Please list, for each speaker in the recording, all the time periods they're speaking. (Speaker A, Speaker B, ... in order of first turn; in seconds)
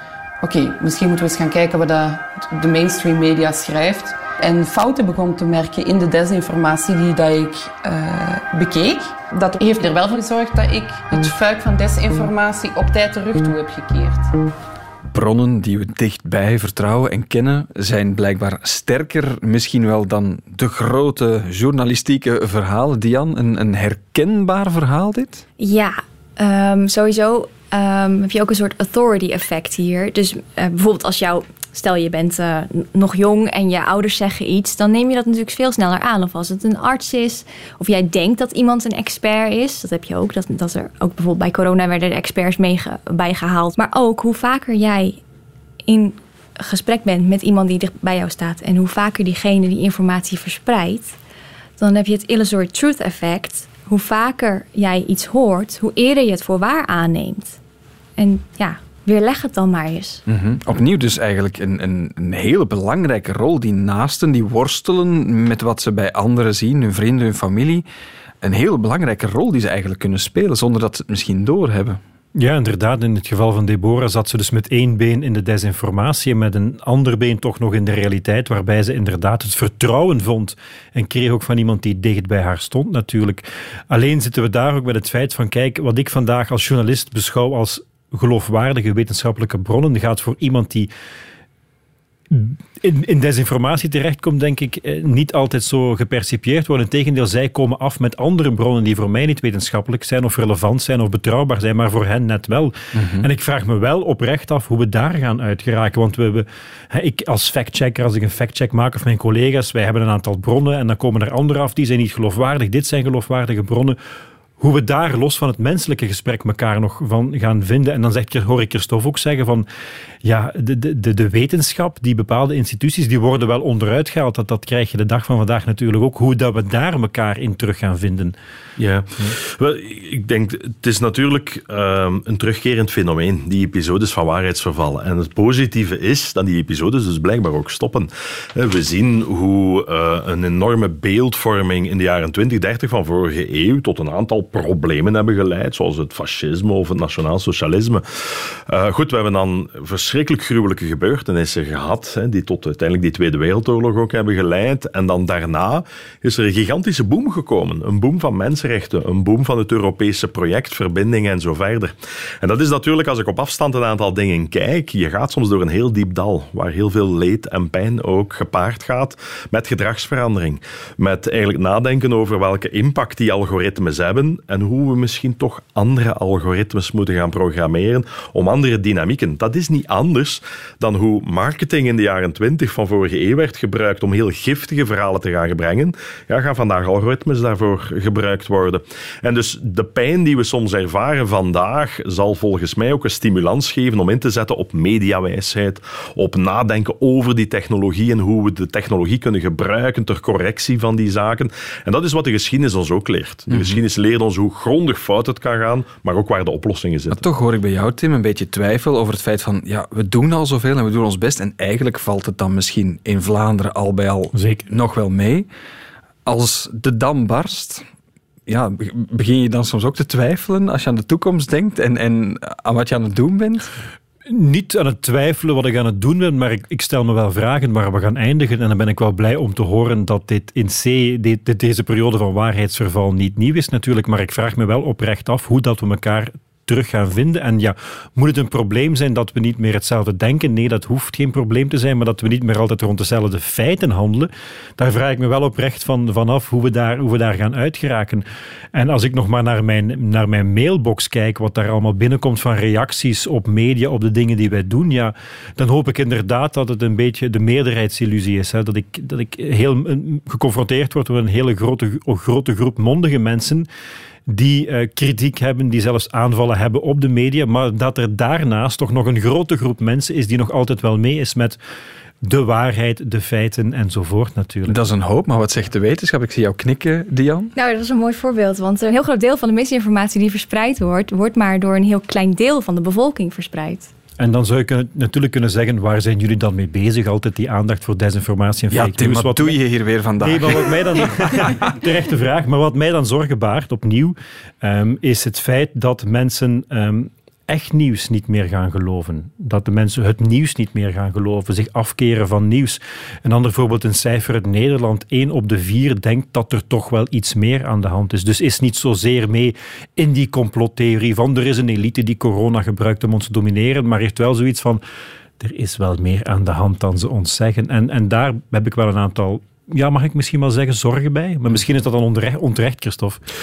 Speaker A: 0.4-14.3
Speaker B: 15.1-25.4, 60.3-67.8, 68.4-72.0, 102.9-103.3, 203.5-203.8, 207.1-215.5, 216.3-217.8, 218.5-223.7, 274.7-277.5, 288.7-291.5
Speaker C: 25.6-45.2, 45.9-51.1, 51.8-57.6, 58.2-60.2, 277.6-283.9
Speaker D: 72.4-90.9, 92.3-114.0, 114.6-119.7, 120.2-128.3, 214.3-214.6, 224.3-263.7, 264.3-271.6, 272.2-274.8, 284.2-289.6, 290.2-314.8, 315.4-323.2
Speaker E: 128.8-207.2